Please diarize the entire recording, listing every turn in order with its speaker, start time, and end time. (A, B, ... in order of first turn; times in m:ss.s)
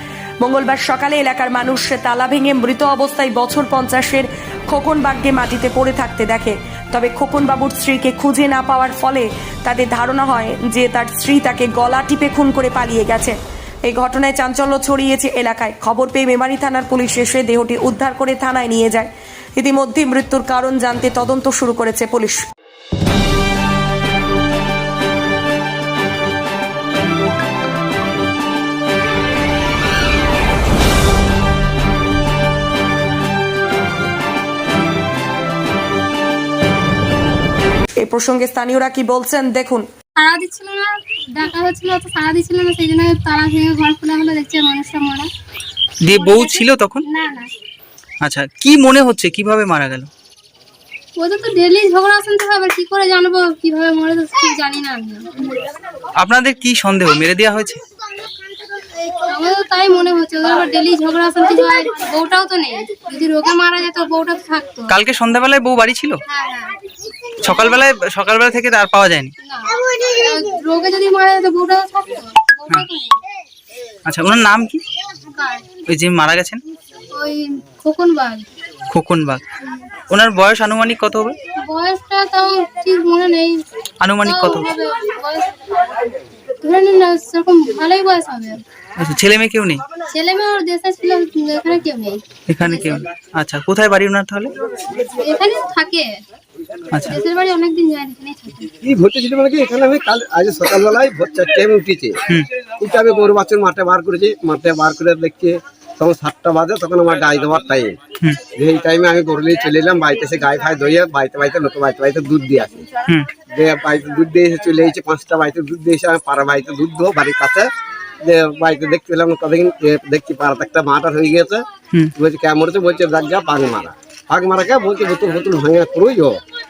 0:00.4-0:22.4 A
0:38.0-0:39.9 A
0:40.2-0:45.3 B
0:46.0-0:47.0 C
0:46.1-0:47.5 B
0:48.2-0:50.1 C
0:51.2-0:55.6 B
0:56.2-0:57.8 C
0:58.9-1:05.0 B
1:04.9-1:06.2 C
1:06.3-1:06.8 B
1:07.4-1:09.3 C
1:07.5-1:07.8 B
1:09.4-1:13.2 B
1:14.1-1:14.8 C
1:15.3-1:15.7 B
1:15.9-1:16.6 C
1:17.1-1:18.5 B
1:18.9-1:19.4 C
1:20.1-1:21.4 C
1:21.6-1:23.6 B
1:24.0-1:24.7 C
1:24.2-1:25.7 B
1:26.6-1:28.6 B
1:29.0-1:29.8 C
1:30.1-1:33.0 B
1:32.5-1:34.5 C
1:35.0-1:36.1 B
1:36.9-1:37.2 C
1:37.0-1:38.7 B
1:38.8-1:42.2 D
1:42.8-1:52.9 D
1:53.5-1:57.7 D
1:58.2-2:01.6 D
2:02.2-2:06.4 D